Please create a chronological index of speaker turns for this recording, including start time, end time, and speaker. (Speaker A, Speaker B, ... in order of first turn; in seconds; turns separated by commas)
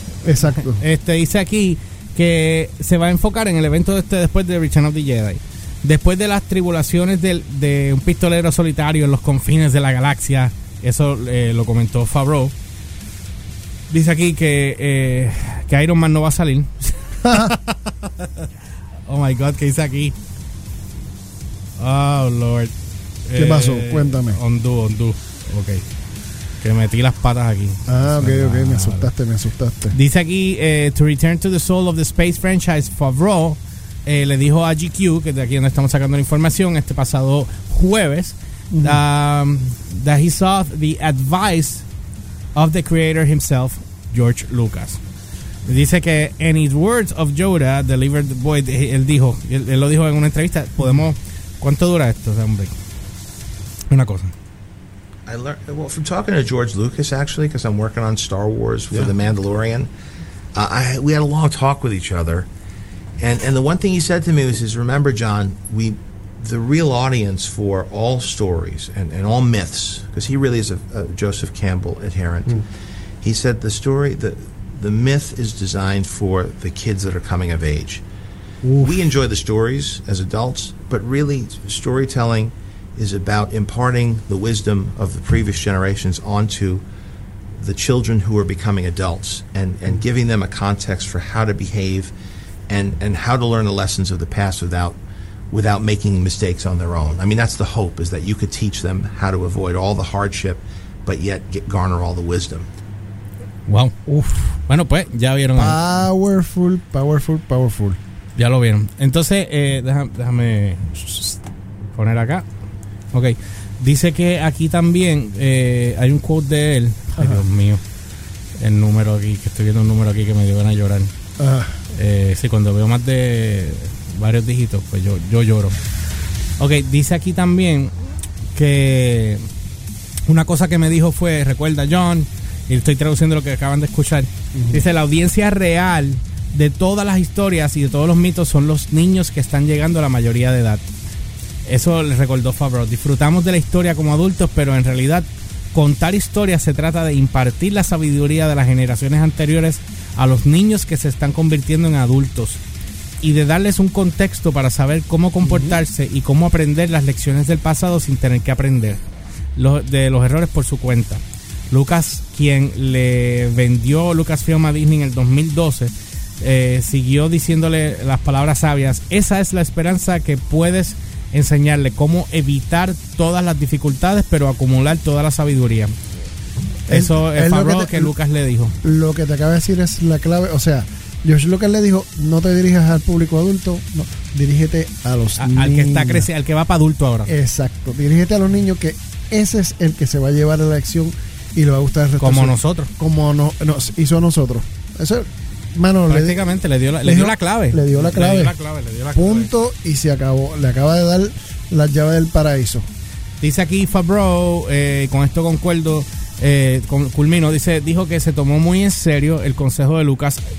Speaker A: 0.2-0.8, Speaker B: 0.5-12.5, Speaker B: 13.9-18.4, Speaker A: 17.2-17.6, Speaker B: 19.1-20.1, Speaker B: 21.8-22.7, Speaker B: 23.3-25.8, Speaker A: 23.4-24.4, Speaker B: 26.6-29.1, Speaker A: 27.9-30.0, Speaker B: 29.9-41.9, Speaker A: 38.7-39.0, Speaker B: 42.5-45.0, Speaker B: 45.7-52.7, Speaker B: 53.9-54.3, Speaker C: 55.3-59.9, Speaker C: 60.5-62.5, Speaker C: 63.2-72.6, Speaker C: 73.2-78.0, Speaker A: 78.6-79.1, Speaker C: 78.8-86.8, Speaker C: 87.6-92.1, Speaker C: 92.7-95.0, Speaker C: 95.5-102.7, Speaker B: 103.7-105.8, Speaker A: 104.1-104.4, Speaker A: 105.6-108.0, Speaker B: 108.4-111.4, Speaker B: 111.9-112.5, Speaker B: 113.1-117.8, Speaker A: 117.2-117.4, Speaker B: 118.6-121.1, Speaker A: 121.4-121.8, Speaker B: 121.9-125.8, Speaker B: 126.6-127.9, Speaker B: 128.5-129.4, Speaker B: 130.3-140.8, Speaker A: 134.5-134.8, Speaker B: 141.7-152.6, Speaker B: 153.2-159.0, Speaker A: 155.4-155.8, Speaker B: 159.6-175.9, Speaker A: 176.9-178.1, Speaker B: 176.9-178.8, Speaker A: 178.8-186.3, Speaker B: 185.4-187.3, Speaker A: 187.3-198.6, Speaker B: 192.2-192.9, Speaker B: 196.1-199.5, Speaker A: 199.1-202.9, Speaker B: 203.4-210.4